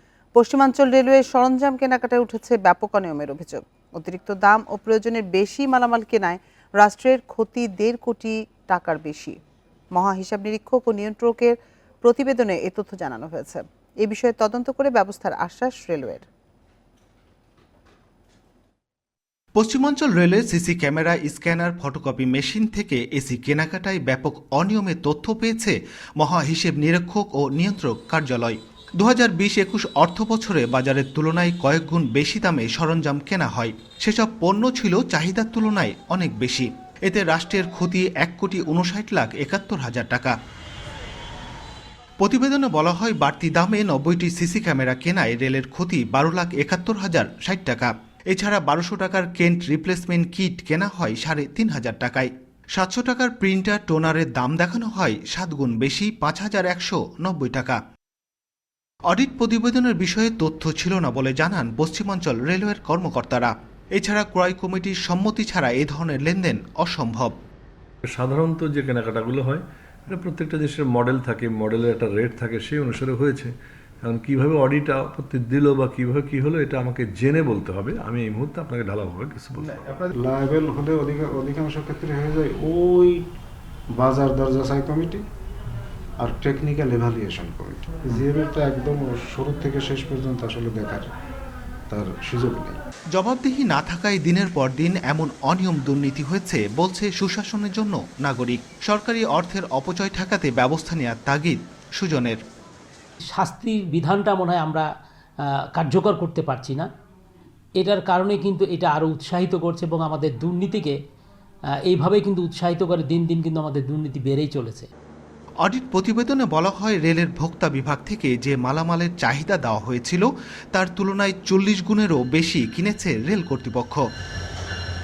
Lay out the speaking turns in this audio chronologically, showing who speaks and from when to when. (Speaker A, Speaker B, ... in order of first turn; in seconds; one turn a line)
Speaker A: 0.3-9.4
Speaker A: 9.9-16.2
Speaker B: 19.5-40.3
Speaker B: 42.2-57.8
Speaker B: 59.1-67.3
Speaker C: 68.1-73.5
Speaker C: 74.0-80.0
Speaker D: 80.1-83.2
Speaker D: 83.9-85.2
Speaker D: 86.2-91.1
Speaker D: 91.9-92.8
Speaker B: 93.1-102.4
Speaker E: 103.3-104.8
Speaker E: 105.8-106.9
Speaker E: 107.8-111.0
Speaker E: 111.9-114.9
Speaker B: 115.6-124.0